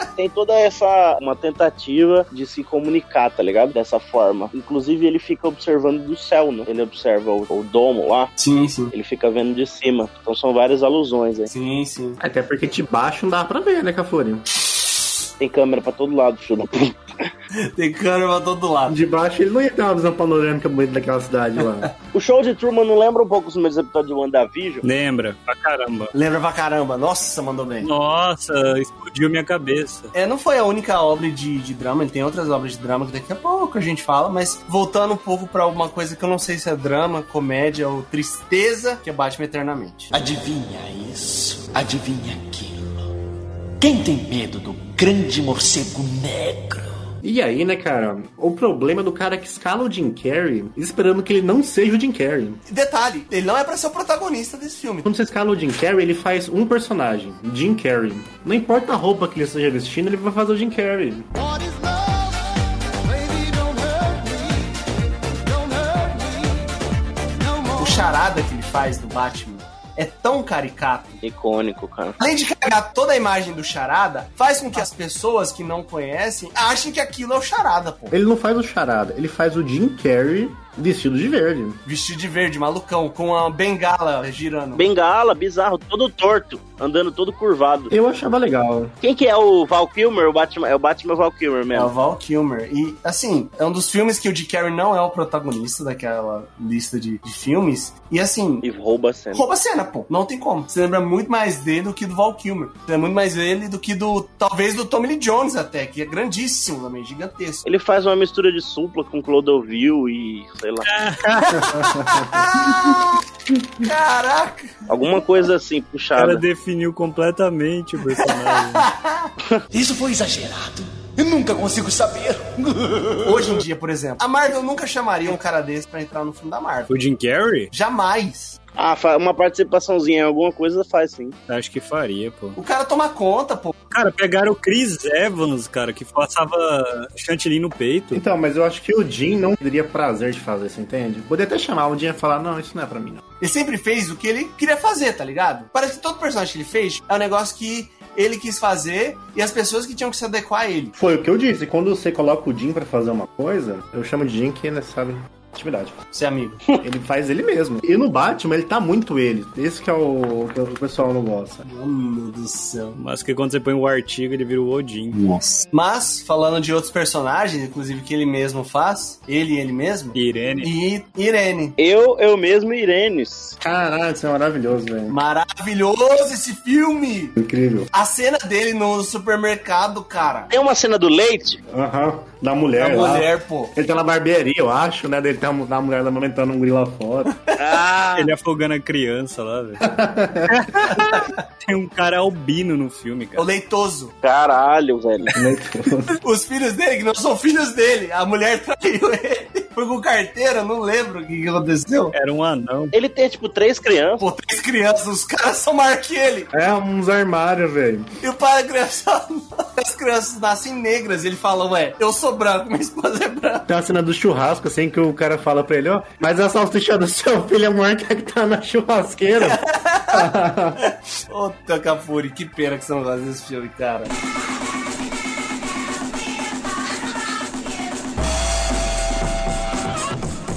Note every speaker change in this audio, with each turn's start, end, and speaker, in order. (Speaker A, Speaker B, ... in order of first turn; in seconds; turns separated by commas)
Speaker A: 0.2-8.3, Speaker B: 8.4-8.9, Speaker A: 8.9-11.5, Speaker B: 11.5-12.2, Speaker C: 12.2-14.4, Speaker A: 15.4-17.3, Speaker B: 17.6-19.0, Speaker C: 18.9-21.9, Speaker A: 22.1-24.8, Speaker D: 24.8-26.1, Speaker B: 26.1-27.9, Speaker D: 27.8-30.1, Speaker B: 30.1-40.1, Speaker E: 40.1-43.1, Speaker E: 43.8-47.0, Speaker C: 47.2-52.6, Speaker B: 52.7-55.1, Speaker C: 55.0-61.3, Speaker B: 61.5-62.1, Speaker B: 67.7-71.2, Speaker A: 71.2-72.2, Speaker B: 72.2-78.1, Speaker C: 78.1-81.8, Speaker B: 81.8-84.8, Speaker A: 84.7-87.9, Speaker C: 87.9-88.9, Speaker A: 89.0-91.9, Speaker B: 91.7-98.6, Speaker A: 98.6-99.4, Speaker B: 99.3-107.6, Speaker A: 107.6-110.9, Speaker D: 110.8-112.0, Speaker B: 111.5-113.2, Speaker B: 113.8-114.8, Speaker A: 114.9-116.4, Speaker D: 116.2-118.9, Speaker B: 118.0-119.3, Speaker E: 119.7-123.5, Speaker B: 123.2-126.9, Speaker D: 126.9-127.7, Speaker B: 127.7-128.6, Speaker A: 128.8-131.3, Speaker D: 131.5-132.6, Speaker B: 132.6-133.7, Speaker D: 133.9-138.2, Speaker C: 138.1-143.2, Speaker B: 143.4-150.9, Speaker C: 150.9-156.0, Speaker B: 156.1-156.8, Speaker C: 156.8-161.6, Speaker B: 161.6-163.0, Speaker D: 162.9-165.2, Speaker B: 165.1-171.8, Speaker D: 170.1-170.7, Speaker A: 171.8-173.6, Speaker C: 173.6-175.2, Speaker B: 175.1-177.4, Speaker C: 177.4-177.9, Speaker B: 177.9-180.5, Speaker A: 180.5-181.6, Speaker C: 181.7-187.3, Speaker B: 182.8-183.7, Speaker B: 187.4-187.8, Speaker A: 187.6-188.3, Speaker D: 188.2-189.9, Speaker C: 189.8-191.1, Speaker D: 190.5-193.5, Speaker B: 193.4-194.1, Speaker A: 194.2-195.3, Speaker C: 195.3-196.2, Speaker B: 196.2-202.1, Speaker D: 202.1-202.9, Speaker A: 202.9-204.2, Speaker B: 204.2-206.5, Speaker C: 206.5-208.1, Speaker B: 208.2-213.7, Speaker C: 213.7-220.8, Speaker B: 219.4-224.1